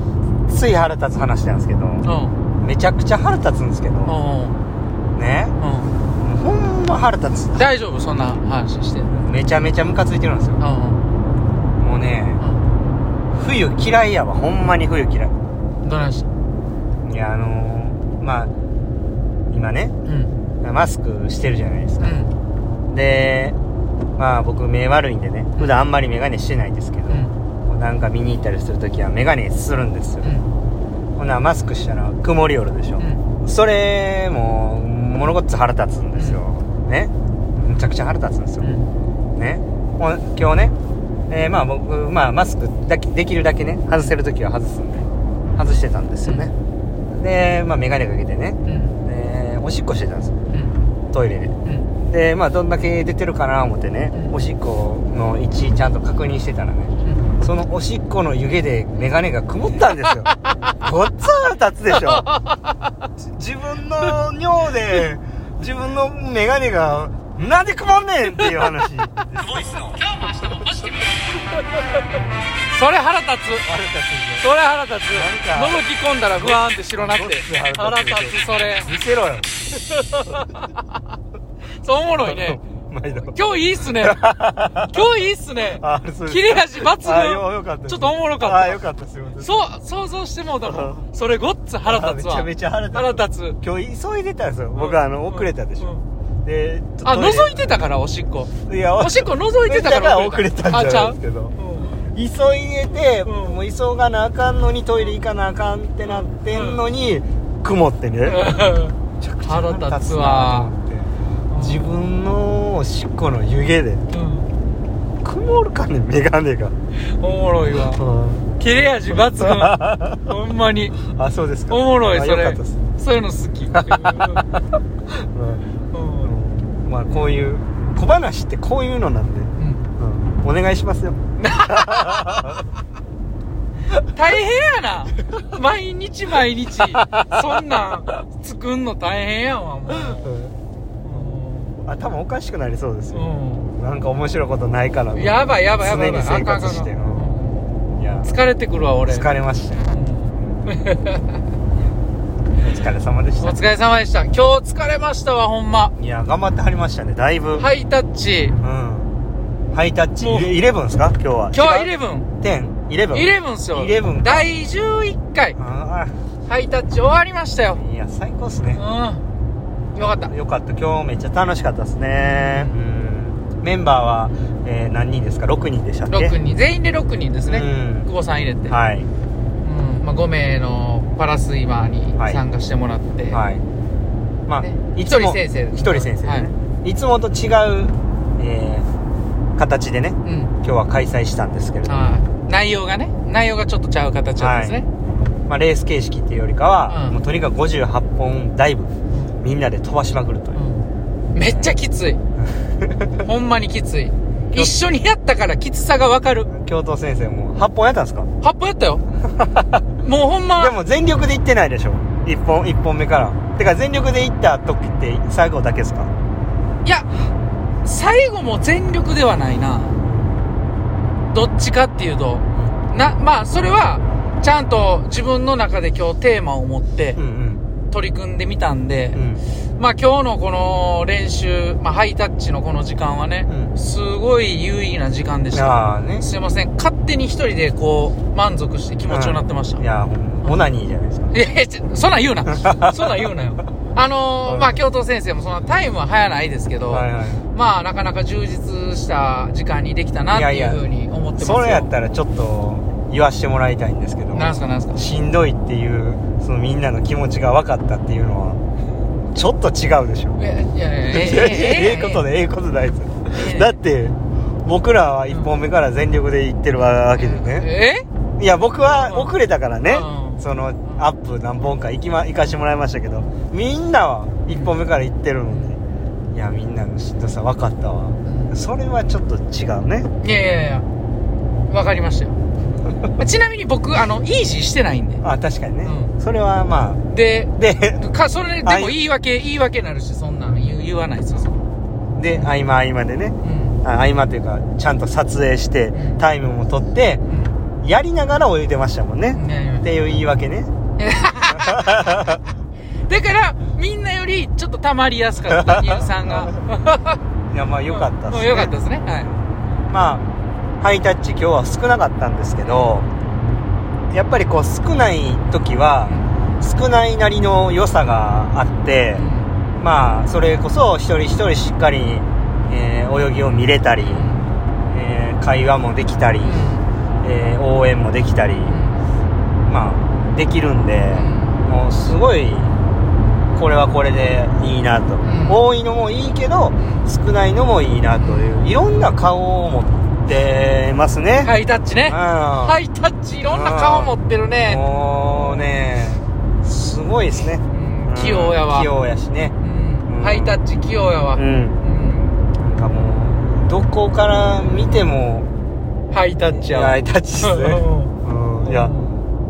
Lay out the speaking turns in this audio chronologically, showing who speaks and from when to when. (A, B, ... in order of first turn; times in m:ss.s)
0:00.5-0:02.1 A
0:02.0-0:02.4 B
0:02.6-0:04.2 A
0:04.0-0:04.6 B
0:05.2-0:05.6 A
0:05.6-0:05.9 B
0:06.2-0:07.7 A
0:07.6-0:09.1 B
0:09.0-0:10.6 A
0:10.6-0:11.1 B
0:11.8-0:12.4 A
0:12.4-0:12.7 B
0:13.3-0:15.4 A
0:15.8-0:16.3 B
0:17.0-0:18.5 A
0:19.5-0:20.0 A
0:20.0-0:20.4 B
0:20.6-0:22.2 A
0:22.0-0:22.3 B
0:22.9-0:23.6 A
0:24.2-0:30.3 A
0:27.1-0:27.4 B
0:30.2-0:30.5 B
0:31.2-0:38.7 A
0:38.6-0:38.9 B
0:39.4-0:40.8 A
0:41.3-0:46.5 A
0:46.2-0:46.5 B
0:47.1-0:50.4 A
0:48.6-0:49.0 B
0:50.5-0:50.8 B
0:51.1-1:02.3 A
0:51.6-0:51.9 B
0:57.0-0:57.3 B
1:00.1-1:00.5 B
1:01.9-1:02.9 B
1:03.2-1:09.9 A
1:09.6-1:11.0 B
1:12.1-1:12.5 A
1:12.7-1:13.7 B
1:13.6-1:14.4 A
1:14.4-1:18.9 B
1:15.1-1:19.5 A
1:19.9-1:20.7 B
1:21.8-1:22.6 B
1:22.2-1:24.9 A
1:23.2-1:28.8 B
1:25.7-1:29.6 A
1:29.4-1:33.6 B
1:30.7-1:31.0 A
1:31.9-1:35.9 A
1:34.8-1:36.0 B
1:36.4-1:37.8 A
1:37.0-1:42.0 B
1:38.7-1:41.6 A
1:42.1-1:48.5 A
1:43.2-1:43.6 B
1:46.5-1:46.8 B
1:48.3-1:50.7 B
1:49.2-1:54.0 A
1:51.5-1:51.9 B
1:54.1-1:54.5 B
1:55.2-1:56.8 A
1:57.0-1:58.0 B
1:57.7-1:58.6 A
1:58.6-2:01.0 B
1:59.3-2:00.3 A
2:01.1-2:02.8 A
2:01.7-2:04.5 B
2:03.7-2:04.4 A
2:05.1-2:05.7 A
2:05.9-2:06.3 B
2:06.2-2:12.6 A
2:09.6-2:09.9 B
2:11.4-2:12.5 B
2:14.0-2:20.4 B
2:16.9-2:17.3 A
2:20.1-2:20.5 A
2:21.0-2:21.8 B
2:21.8-2:27.3 A
2:23.1-2:23.7 B
2:25.1-2:29.3 B
2:27.9-2:28.3 A
2:29.1-2:30.6 A
2:29.9-2:31.3 B
2:32.6-2:33.6 A
2:33.4-2:35.9 B
2:36.0-2:37.7 A
2:37.6-2:38.6 B
2:38.6-2:39.1 A
2:39.7-2:44.5 A
2:40.2-2:40.5 B
2:41.5-2:42.3 B
2:43.1-2:45.6 B
2:45.6-2:46.2 A
2:46.5-2:47.8 B
2:47.7-2:48.8 A
2:48.8-2:49.2 B
2:50.0-2:50.3 B
2:50.0-2:56.4 A
2:52.2-2:52.8 B
2:56.1-2:58.8 B
2:57.5-2:58.1 A
2:58.7-2:59.1 A
2:59.6-3:03.4 B
3:03.3-3:03.6 A
3:04.5-3:08.9 A
3:04.6-3:06.5 B
3:09.6-3:12.2 A
3:10.2-3:10.5 B
3:11.9-3:14.9 B
3:14.4-3:14.8 A
3:15.5-3:20.6 A
3:16.9-3:17.2 B
3:20.6-3:22.2 B
3:21.4-3:21.7 A
3:22.4-3:23.2 A
3:23.2-3:26.5 B
3:26.5-3:28.3 A
3:28.4-3:29.0 B
3:29.3-3:29.8 A
3:30.0-3:30.8 B
3:30.6-3:36.1 A
3:36.8-3:37.1 B
3:37.8-3:40.0 B
3:40.0-3:40.4 A
3:41.3-3:47.2 B
3:47.2-3:47.6 A
3:47.9-3:49.2 B
3:49.1-3:49.4 A
3:49.8-3:59.8 B
3:53.5-3:53.7 A
3:55.5-3:56.3 A
3:59.1-4:01.4 A
4:01.3-4:11.9 B
4:02.5-4:03.3 A
4:04.5-4:04.7 A
4:06.9-4:07.5 A
4:10.3-4:10.8 A
4:11.4-4:18.6 A
4:14.3-4:15.0 B
4:19.3-4:20.4 A
4:20.4-4:22.3 B
4:21.1-4:27.7 A
4:23.3-4:23.8 B
4:27.2-4:28.0 B
4:28.4-4:35.8 A
4:28.8-4:29.3 B
4:29.9-4:31.0 B
4:36.3-4:40.1 A
4:38.3-4:38.6 B
4:40.2-4:40.9 B
4:41.7-4:42.4 B
4:43.2-4:45.2 B
4:45.2-4:47.0 A
4:45.8-4:46.1 B
4:47.1-4:51.6 B
4:47.6-4:48.0 A
4:48.6-4:49.0 A
4:52.2-4:57.2 A
4:53.4-4:53.8 B
4:55.9-4:56.2 B
4:57.3-4:57.5 B
4:57.8-5:00.7 A
4:59.3-4:59.9 B
5:01.0-5:01.9 B
5:01.5-5:02.4 A
5:03.1-5:07.2 B
5:05.6-5:06.6 A
5:07.5-5:08.8 A
5:07.9-5:09.3 B
5:09.9-5:10.2 A
5:10.8-5:13.1 A
5:14.1-5:19.2 A
5:16.0-5:16.3 B
5:19.2-5:19.6 B
5:19.8-5:24.3 A
5:24.1-5:24.5 B
5:24.9-5:26.7 A
5:26.4-5:26.9 B
5:27.2-5:28.8 A
5:28.7-5:29.1 B
5:29.7-5:32.8 A
5:31.1-5:31.6 B
5:33.5-5:42.8 A
5:35.2-5:35.6 B
5:36.8-5:37.1 B
5:38.2-5:38.7 B
5:41.4-5:45.7 B
5:43.5-5:49.6 A
5:47.7-5:48.9 B
5:49.6-5:52.5 B
5:50.1-5:50.6 A
5:51.3-5:51.8 A
5:52.6-5:55.5 A
5:56.1-5:59.2 B
5:56.5-5:58.9 A